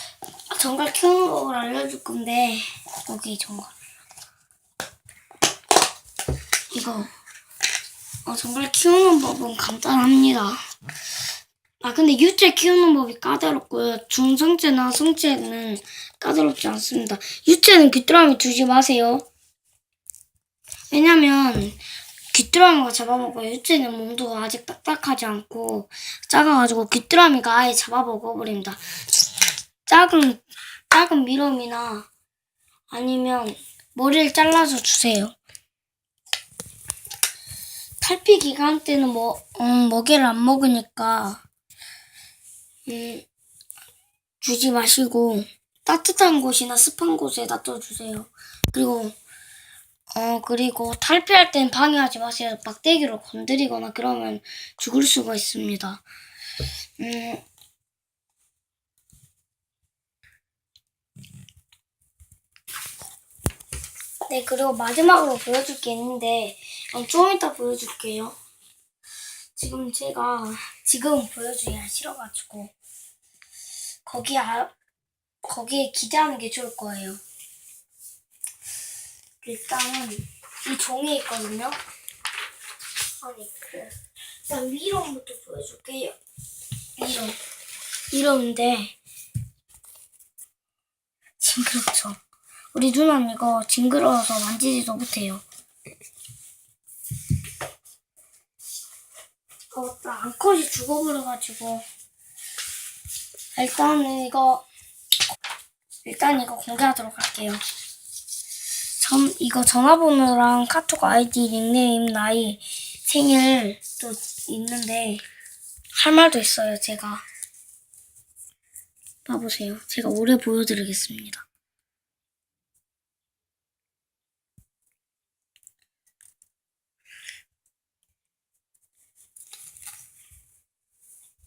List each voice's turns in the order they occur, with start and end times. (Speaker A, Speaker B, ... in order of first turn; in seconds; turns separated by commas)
Speaker A: 0.5-3.7, Speaker A: 6.7-7.1, Speaker A: 8.2-10.6, Speaker A: 11.8-19.2, Speaker A: 20.9-21.8, Speaker A: 22.3-28.8, Speaker A: 29.9-32.1, Speaker A: 32.9-35.3, Speaker A: 38.0-41.4, Speaker A: 42.9-43.2, Speaker A: 44.4-49.1, Speaker A: 50.1-56.0, Speaker A: 57.0-57.4, Speaker A: 64.3-68.3, Speaker A: 69.5-72.7, Speaker A: 74.0-74.7, Speaker A: 75.4-77.2, Speaker A: 79.4-81.8, Speaker A: 83.2-83.9, Speaker A: 84.4-86.2, Speaker A: 87.0-87.4, Speaker A: 88.1-88.9, Speaker A: 91.4-92.2, Speaker A: 92.7-95.4, Speaker A: 99.7-101.8, Speaker A: 103.5-104.7, Speaker A: 106.0-107.6, Speaker A: 109.0-115.2, Speaker A: 115.9-117.2, Speaker A: 119.2-121.4